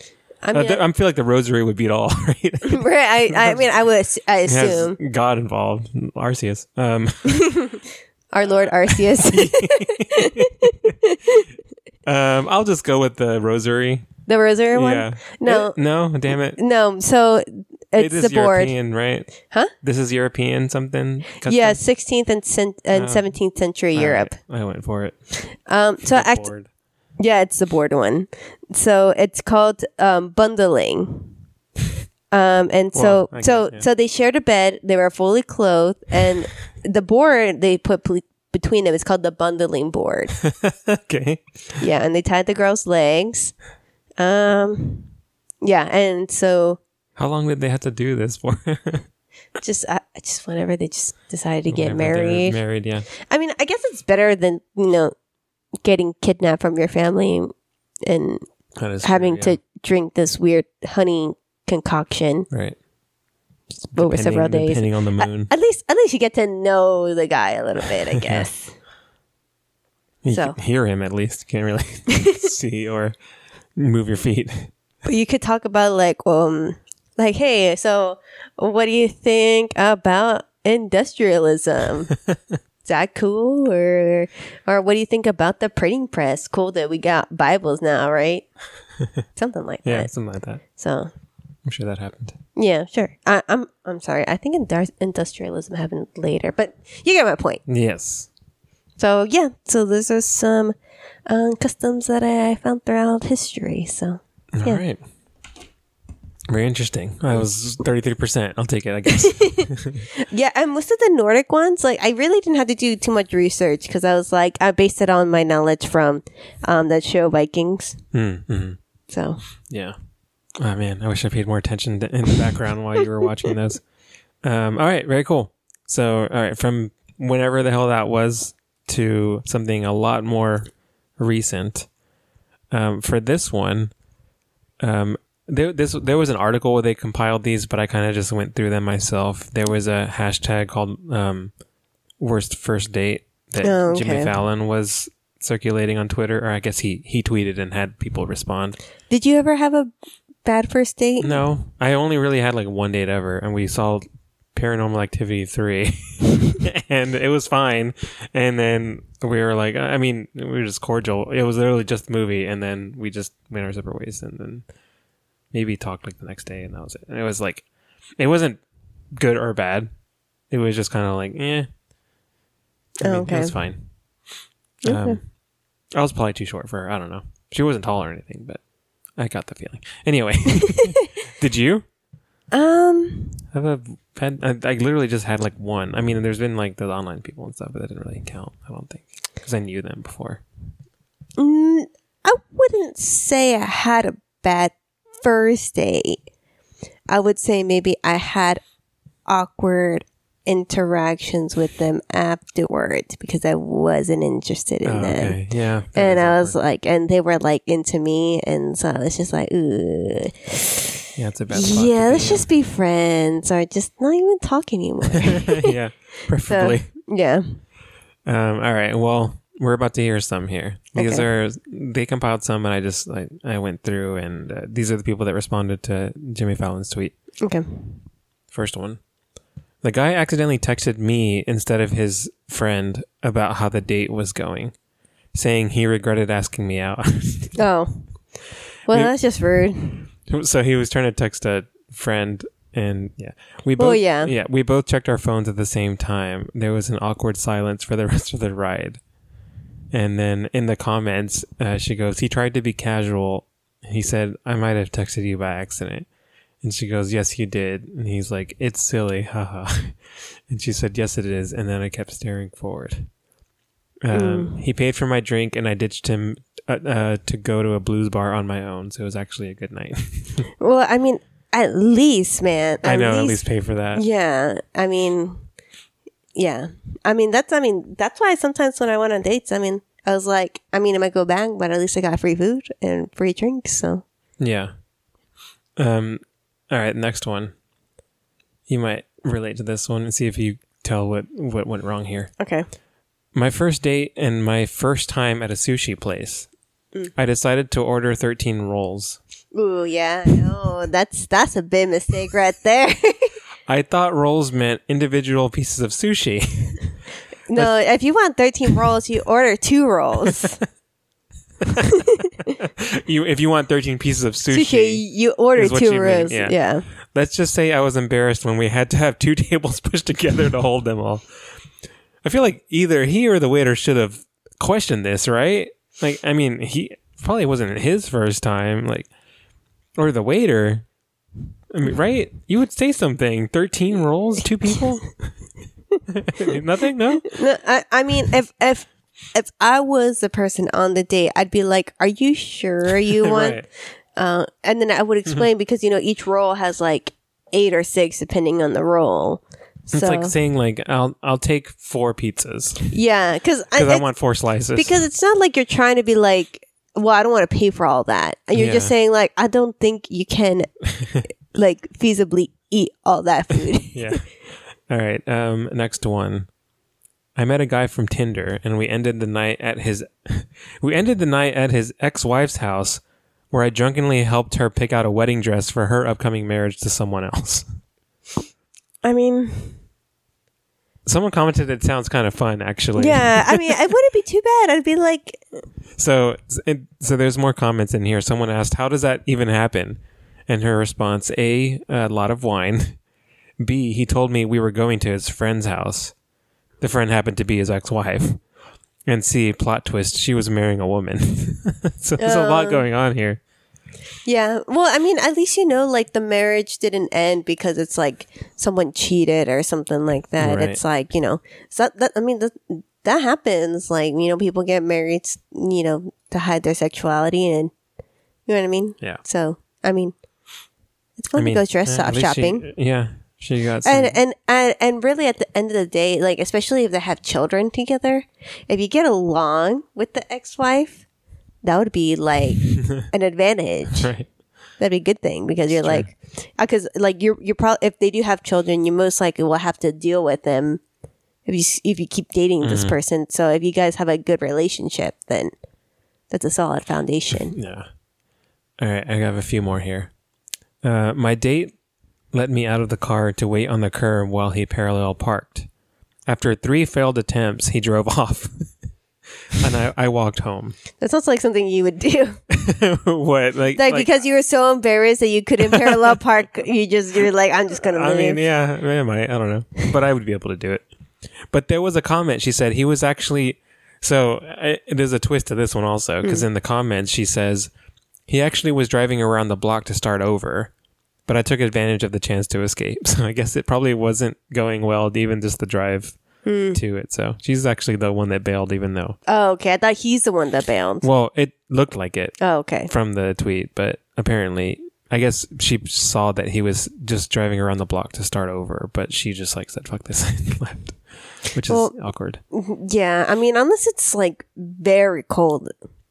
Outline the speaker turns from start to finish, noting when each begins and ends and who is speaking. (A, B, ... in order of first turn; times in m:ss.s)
0:00.4-0:00.8 A
0:00.5-0:03.6 B
0:02.6-0:05.0 A
0:04.4-0:07.6 B
0:07.2-0:11.5 A
0:08.9-0:10.9 B
0:12.0-0:14.1 B
0:14.3-0:15.8 A
0:14.7-0:16.6 B
0:16.6-0:18.7 A
0:18.0-0:19.3 B
0:19.8-0:21.8 B
0:21.4-0:24.4 A
0:22.9-0:23.3 B
0:23.9-0:25.2 B
0:25.4-0:26.5 A
0:26.0-0:26.7 B
0:27.2-0:31.3 A
0:32.3-0:40.4 A
0:32.9-0:33.8 B
0:40.4-0:41.8 B
0:41.8-0:43.5 A
0:44.2-0:45.1 A
0:45.6-0:46.8 A
0:47.2-0:49.1 B
0:49.6-0:52.6 A
0:51.7-0:53.1 B
0:53.2-0:55.1 A
0:55.8-0:57.5 A
0:58.0-0:58.4 A
0:58.8-0:59.6 B
0:59.0-1:02.5 A
1:02.5-1:02.8 B
1:03.9-1:05.5 B
1:03.9-1:08.7 A
1:08.1-1:08.4 B
1:10.2-1:13.2 B
1:10.3-1:10.6 A
1:12.1-1:12.4 A
1:13.8-1:14.7 B
1:15.0-1:22.1 A
1:22.3-1:22.6 B
1:22.8-1:28.5 A
1:29.4-1:30.1 A
1:29.8-1:30.6 B
1:30.8-1:31.1 A
1:31.6-1:32.4 B
1:32.6-1:37.6 A
1:37.7-1:38.3 B
1:39.0-1:40.7 A
1:41.3-1:44.8 A
1:44.5-1:45.0 B
1:46.5-1:50.0 B
1:49.1-1:58.0 A
1:58.1-1:58.8 B
1:59.1-1:59.4 A
1:59.7-1:59.9 B
2:00.6-2:03.8 B
2:04.4-2:11.9 B
2:12.7-2:13.9 B
2:14.8-2:21.5 B
2:22.2-2:28.8 B
2:23.6-2:24.3 A
2:29.1-2:29.9 A
2:30.4-2:31.3 A
2:31.2-2:44.6 B
2:45.5-2:47.6 B
2:48.2-2:48.6 B
2:49.2-2:49.9 B
2:50.5-2:51.7 B
2:53.0-2:53.5 A
2:53.0-2:53.9 B
2:54.8-2:55.2 A
2:54.8-2:55.2 B
2:55.9-2:58.6 B
2:59.2-3:01.8 B
3:00.6-3:01.1 A
3:02.5-3:03.4 A
3:03.5-3:10.4 B
3:11.4-3:16.2 A
3:17.1-3:18.6 A
3:19.3-3:25.4 A
3:24.8-3:26.6 B
3:25.9-3:35.7 A
3:31.2-3:32.5 B
3:35.1-3:36.9 B
3:36.4-3:37.6 A
3:38.2-3:47.1 B
3:41.0-3:41.2 A
3:47.4-3:48.0 A
3:48.5-3:49.0 B
3:49.8-3:54.7 B
3:55.3-3:57.6 B
3:57.6-3:58.0 A
3:58.9-4:00.1 A
4:00.3-4:09.0 B
4:03.8-4:04.3 A
4:09.9-4:16.1 B
4:16.6-4:20.0 B
4:20.5-4:23.1 B
4:24.0-4:30.5 B
4:24.1-4:24.6 A
4:30.6-4:33.4 A
4:32.8-4:34.0 B
4:33.9-4:35.4 A
4:36.3-4:44.0 A
4:44.4-4:44.7 B
4:45.8-4:47.5 B
4:48.7-4:52.3 B
4:52.4-4:52.6 A
4:53.3-4:56.5 B
4:57.2-4:59.2 B
4:59.5-5:03.3 A
5:03.7-5:06.9 B
5:07.5-5:10.6 A
5:11.8-5:12.5 A
5:12.4-5:15.0 B
5:14.5-5:16.8 A
5:15.5-5:16.6 B
5:17.1-5:21.2 B
5:22.2-5:29.1 B
5:30.0-5:30.8 B
5:31.7-5:35.3 B
5:36.1-5:37.3 B
5:37.2-5:43.6 A
5:43.0-5:43.6 B
5:44.2-5:50.3 A
5:49.9-5:52.9 B
5:52.9-5:54.0 A
5:53.8-5:55.0 B
5:54.7-6:00.7 A
5:58.5-5:58.9 B
6:01.5-6:04.2 A
6:03.9-6:04.2 B
6:04.9-6:06.5 B
6:07.4-6:17.7 B
6:19.0-6:19.8 A
6:21.0-6:23.8 B
6:23.0-6:25.4 A
6:26.0-6:33.0 B
6:33.6-6:36.1 B
6:36.8-6:38.4 B
6:39.1-6:43.4 B
6:42.2-6:42.8 A
6:44.2-6:57.7 A
6:50.4-6:50.8 B
6:58.5-7:00.1 A
7:01.2-7:02.6 A
7:01.4-7:04.2 B
7:03.8-7:11.0 A
7:11.6-7:14.1 A
7:12.6-7:13.0 B
7:13.9-7:14.3 B
7:14.8-7:20.8 A
7:15.7-7:16.1 B
7:21.4-7:25.5 A
7:22.6-7:22.9 B
7:26.3-7:27.6 A
7:27.5-7:27.9 B
7:28.8-7:30.1 B
7:30.8-7:31.7 B
7:32.3-7:35.7 B
7:36.3-7:38.6 B
7:39.5-7:40.8 B
7:41.0-7:42.4 A
7:42.5-7:44.1 B
7:43.7-7:48.4 A
7:45.6-7:46.2 B
7:47.7-7:50.8 B
7:51.5-7:57.7 B
7:58.3-8:00.7 B
8:01.3-8:06.2 B
8:06.4-8:06.8 A
8:06.7-8:09.2 B
8:09.3-8:11.0 A
8:11.0-8:22.4 B
8:12.4-8:12.9 A
8:21.7-8:21.9 A
8:22.5-8:25.7 A